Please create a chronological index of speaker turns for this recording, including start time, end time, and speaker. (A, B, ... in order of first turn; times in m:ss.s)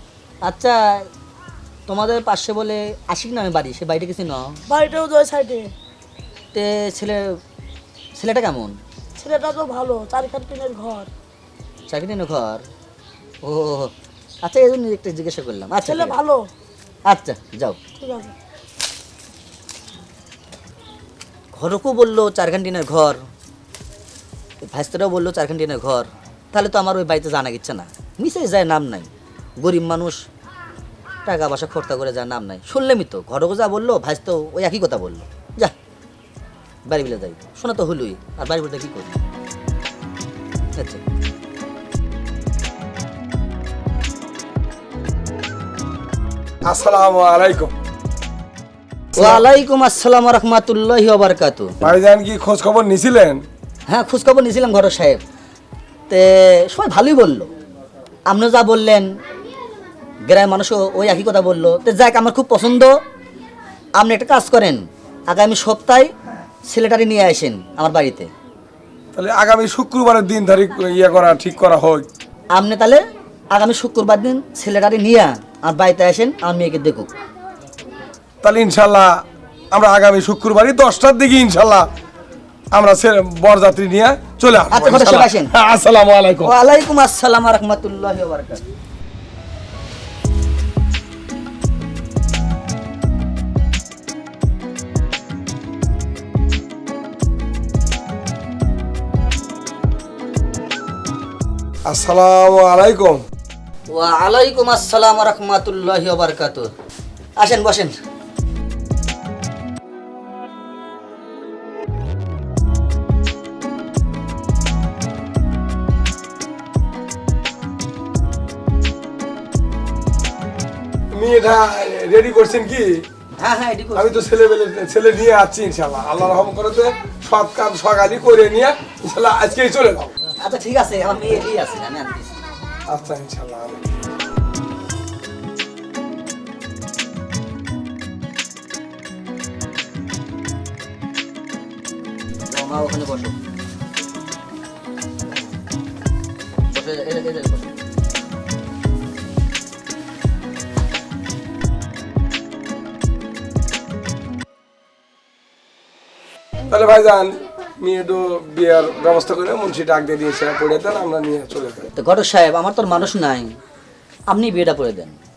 0:00.4-0:01.1 A
0:01.9-0:04.6 A
0:04.7-0:05.7 B
0:06.5-0:07.2 A
0:08.2-0:08.7 A
0:09.2-0:11.1 B
0:11.9-0:12.6 A
0:13.4-0:13.9 A
0:14.4-0:16.2 A
0:15.8-0:16.4 B
0:17.1-0:17.8 A
0:18.0-0:18.3 B
0:21.5-0:23.2 A
0:24.6-0:29.1 A
0:29.6-0:30.2 A
0:31.2-0:35.7 A
0:36.9-0:39.2 A
0:46.6-0:47.7 C
0:49.2-0:49.4 C
0:49.2-0:51.8 A
0:51.8-0:53.4 C
0:53.9-0:55.2 A
0:56.1-0:57.5 A
0:58.3-0:59.1 A
1:00.3-1:02.9 A
1:04.0-1:06.1 A
1:06.7-1:08.3 A
1:09.1-1:12.1 C
1:12.5-1:17.1 A
1:18.4-1:19.2 C
1:19.7-1:21.9 C
1:22.7-1:26.5 C
1:24.7-1:25.5 A
1:26.4-1:28.6 A
1:41.9-1:43.2 C
1:43.9-1:46.7 A
1:47.4-1:47.9 A
2:01.1-2:03.0 C
2:03.4-2:04.1 A
2:03.9-2:10.1 C
2:10.4-2:12.3 A
2:12.9-2:13.8 C
2:22.5-2:23.4 A
2:26.7-2:27.7 A
2:36.7-2:41.9 C
2:42.0-2:43.5 A
2:44.3-2:45.2 A